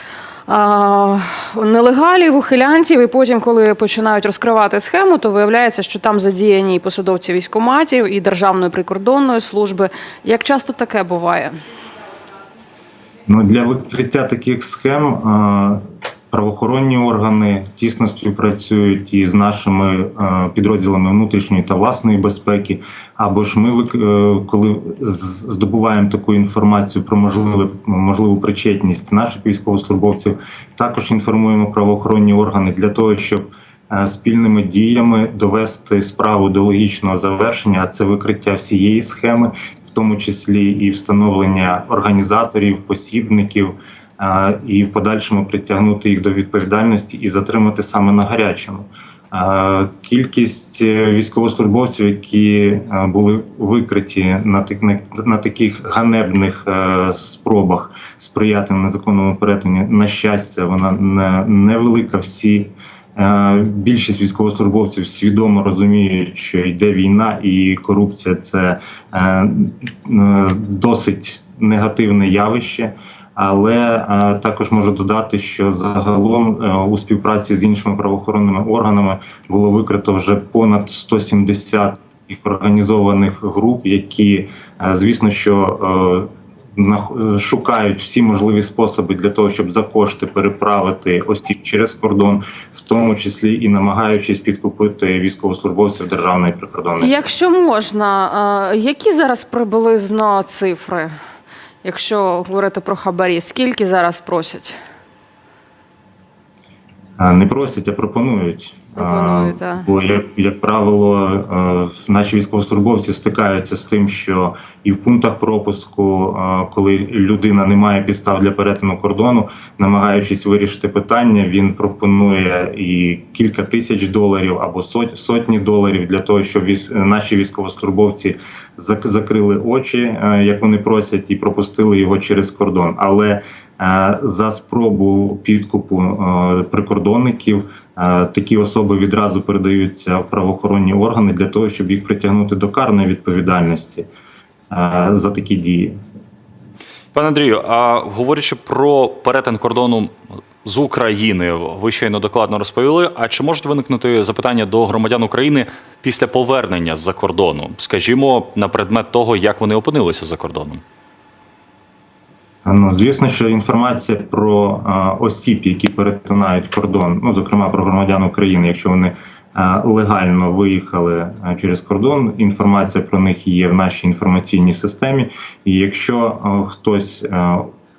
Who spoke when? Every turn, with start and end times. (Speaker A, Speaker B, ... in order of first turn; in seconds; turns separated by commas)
Speaker A: 0.5-11.6, Speaker B: 13.3-97.2, Speaker A: 97.0-101.1, Speaker A: 101.8-104.8, Speaker B: 107.2-144.1, Speaker A: 109.0-109.9, Speaker B: 144.7-146.0, Speaker C: 147.1-160.8, Speaker B: 162.7-177.7